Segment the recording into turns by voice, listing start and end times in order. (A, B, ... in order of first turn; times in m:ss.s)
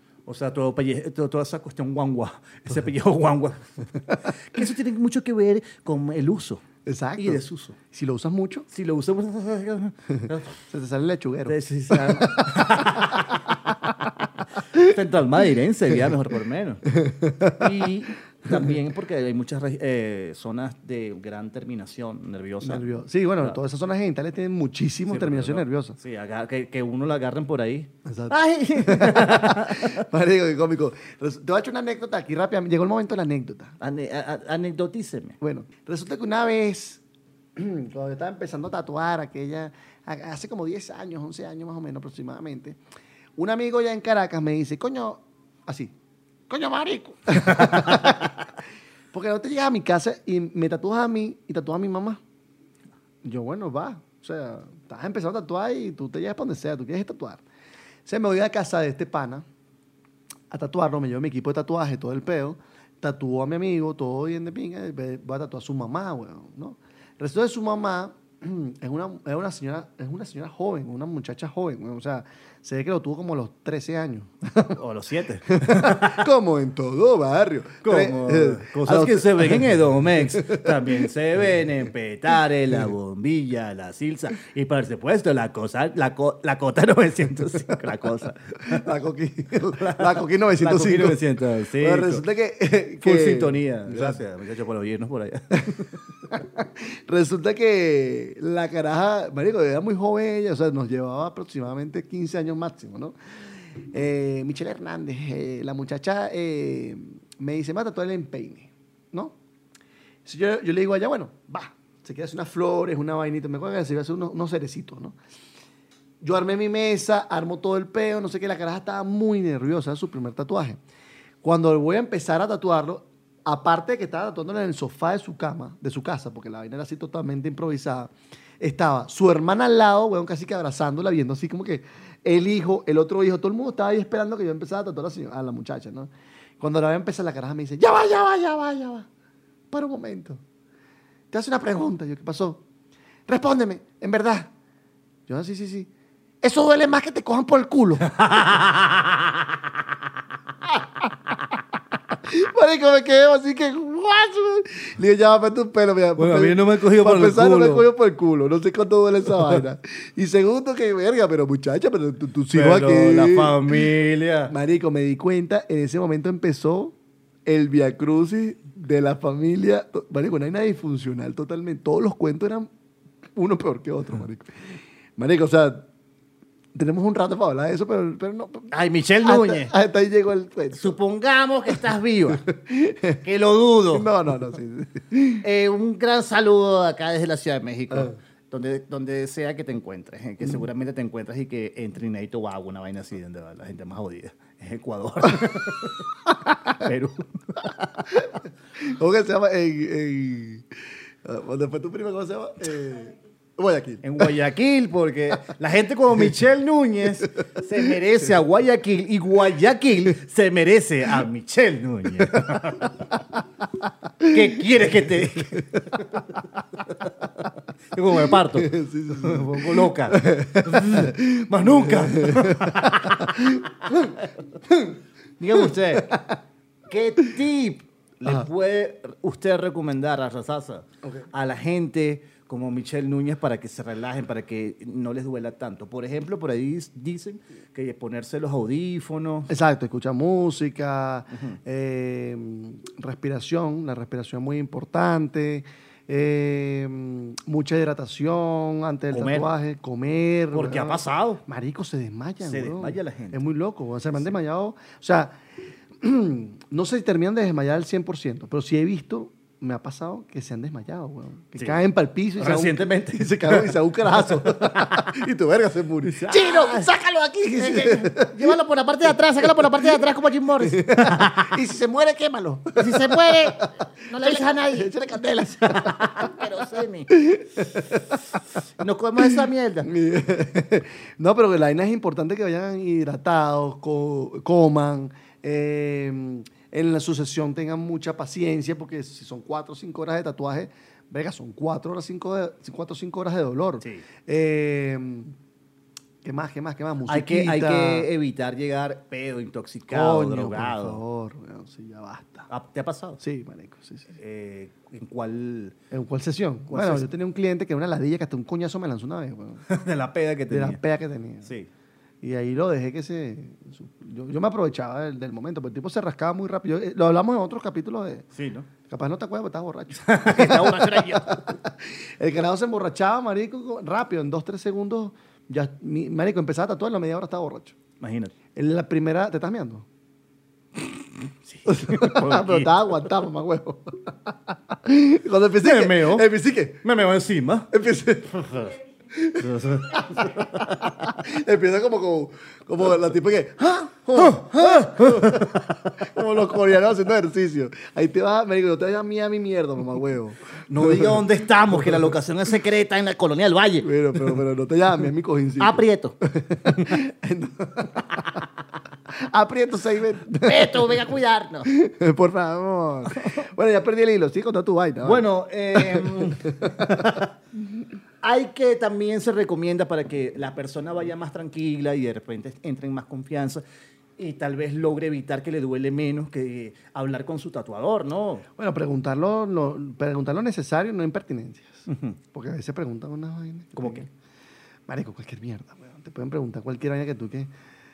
0:00.3-0:06.6 A
0:06.8-0:08.7 B
0:07.2-0:07.8 A
0:08.7-0:10.6 A
0:10.7-0:14.0 B
0:11.5-0:13.5 A
0:14.7-0:16.9 A
0:17.0-0:17.7 B
0:17.4-0:22.9 A
0:22.6-0:26.0 B
0:25.1-0:30.0 A
0:28.0-0:33.8 B
0:33.8-0:35.4 A
0:35.4-0:37.0 B
0:37.6-0:42.8 B
0:43.4-0:45.9 B
0:46.5-0:48.4 B
0:47.5-0:48.0 A
0:49.1-0:52.2 B
0:53.2-0:57.4 B
0:58.1-0:59.5 B
1:00.5-1:14.8 B
1:14.7-1:16.3 A
1:15.5-1:21.1 B
1:17.8-1:28.9 A
1:28.6-1:34.2 B
1:29.6-1:32.2 A
1:33.0-1:36.0 A
1:35.6-1:43.2 B
1:43.8-1:49.4 B
1:50.2-1:55.2 B
1:56.2-2:00.8 B
2:01.4-2:19.1 B
2:19.7-2:20.4 B
2:21.3-2:22.6 B
2:23.3-2:24.5 B
2:25.3-2:25.9 B
2:26.4-2:28.1 B
2:28.0-2:29.4 A
2:30.6-2:31.6 B
2:32.1-2:43.9 B
2:36.2-2:37.8 A
2:42.5-2:44.5 A
2:44.5-2:47.0 B
2:47.5-2:52.7 B
2:53.4-2:55.9 B
2:56.7-2:58.7 B
2:58.7-2:59.7 A
2:59.2-3:01.0 B
3:00.7-3:02.5 A
3:02.3-3:03.2 B
3:03.2-3:04.1 A
3:03.9-3:05.4 B
3:05.4-3:16.1 A
3:16.5-3:16.8 B
3:16.7-3:18.1 A
3:18.1-3:20.7 B
3:21.2-3:24.3 B
3:24.0-3:33.0 A
3:34.2-3:36.3 A
3:35.6-3:36.0 B
3:37.9-3:44.4 A
3:38.4-3:45.0 B
3:45.4-3:46.2 A
3:45.6-3:46.4 B
3:46.9-3:59.5 A
3:59.5-4:15.4 B
4:09.1-4:09.5 A
4:10.5-4:11.4 A
4:12.4-4:13.4 A
4:16.0-4:28.6 B
4:21.6-4:21.8 A
4:22.4-4:25.1 A
4:26.0-4:26.9 A
4:27.5-4:31.6 A
4:29.4-4:30.0 B
4:30.6-4:33.7 B
4:32.8-4:35.0 A
4:34.2-4:36.4 B
4:35.6-4:37.1 A
4:37.1-4:38.2 B
4:38.8-4:39.9 A
4:39.2-4:55.4 B
4:56.2-4:58.1 B
4:57.1-5:01.0 A
4:59.9-5:02.5 B
5:02.5-5:03.2 A
5:03.2-5:04.1 B
5:04.2-5:05.8 A
5:05.9-5:09.6 B
5:06.7-5:07.1 A
5:09.7-5:10.8 A
5:10.5-5:11.5 B
5:12.2-5:18.3 B
5:18.3-5:18.7 A
5:18.9-5:27.8 B
5:20.0-5:21.4 A
5:28.0-5:28.3 A
5:28.6-5:29.9 B
5:31.5-5:32.7 A
5:31.7-5:36.8 B
5:35.6-5:36.3 A
5:36.8-5:37.7 A
5:37.7-5:38.6 B
5:38.3-5:38.8 A
5:39.1-5:52.1 B
5:39.3-5:41.0 A
5:44.2-5:46.1 A
5:50.7-5:54.3 A
5:53.8-5:58.5 B
5:55.6-5:56.2 A
5:59.1-6:01.1 B
6:00.4-6:01.7 A
6:01.7-6:07.2 B
6:05.0-6:07.3 A
6:08.2-6:13.6 A
6:14.2-6:18.5 A
6:18.6-6:24.1 B
6:21.9-6:22.2 A
6:23.8-6:24.1 A
6:24.9-6:27.5 B